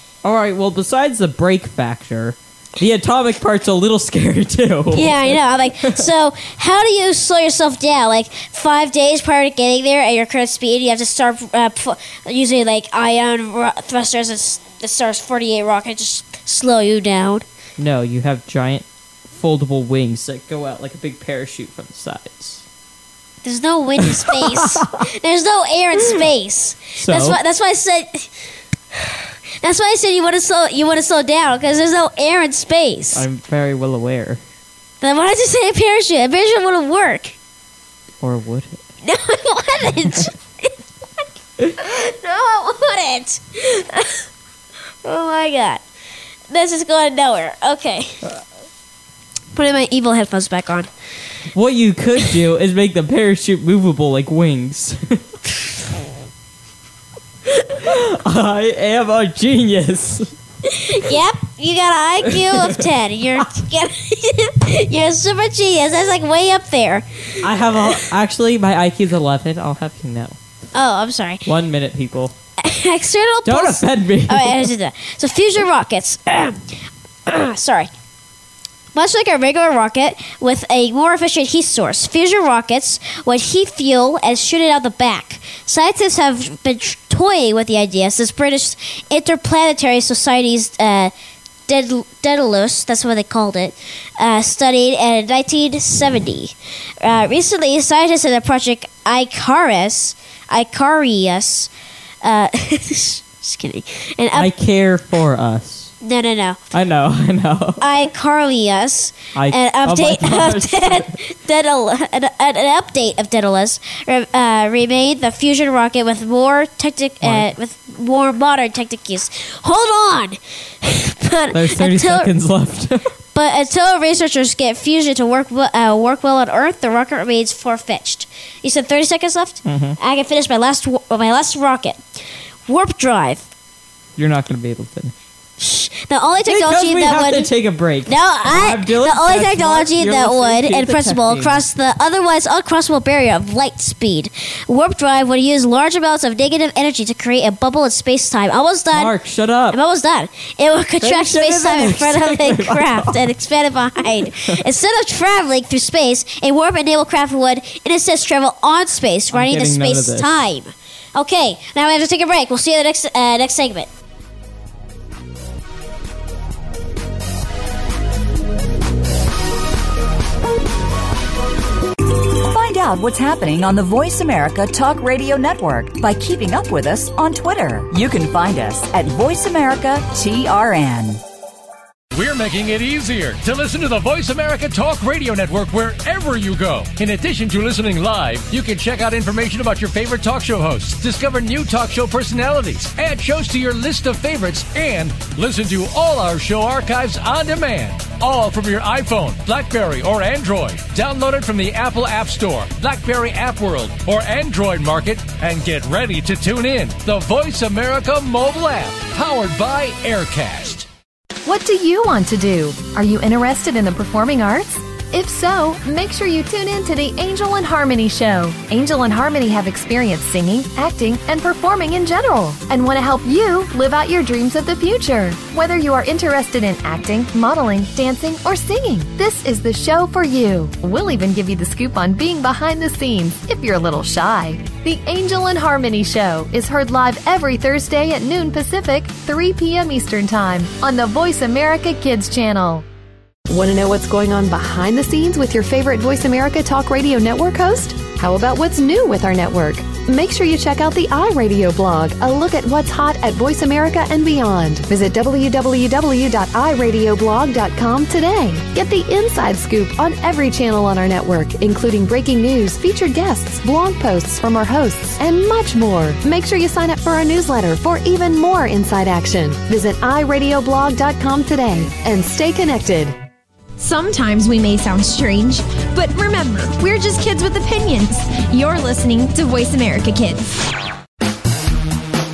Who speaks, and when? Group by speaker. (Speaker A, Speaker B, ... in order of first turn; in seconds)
Speaker A: 0.2-6.0, 17.8-22.6, 24.0-24.9, 26.9-27.4, 33.1-34.4, 38.2-38.8, 51.5-55.2, 57.7-60.3, 62.2-62.9, 67.4-70.3, 71.5-72.3, 73.5-74.7, 104.3-105.9, 106.7-107.8, 109.3-111.2, 117.2-117.5, 121.5-123.1, 129.6-130.0, 134.2-135.1, 136.4-141.6, 148.9-149.8, 151.0-153.2, 154.3-154.6, 159.3-160.4
Speaker B: 4.9-17.4, 23.4-28.3, 28.9-33.2, 35.0-37.3, 39.0-40.7, 41.8-44.2, 45.0-45.8, 46.5-48.2, 49.5-50.9, 60.7-68.0, 70.7-71.5, 72.6-77.9, 78.9-91.1, 91.7-101.7, 102.2-104.5, 106.0-106.6, 107.8-122.3, 123.3-133.5, 135.6-137.5, 138.1-149.1, 149.7-163.9
Speaker C: 172.4-181.2
Speaker D: 182.1-210.9
Speaker E: 211.4-242.8, 243.5-273.1
Speaker F: 273.8-280.5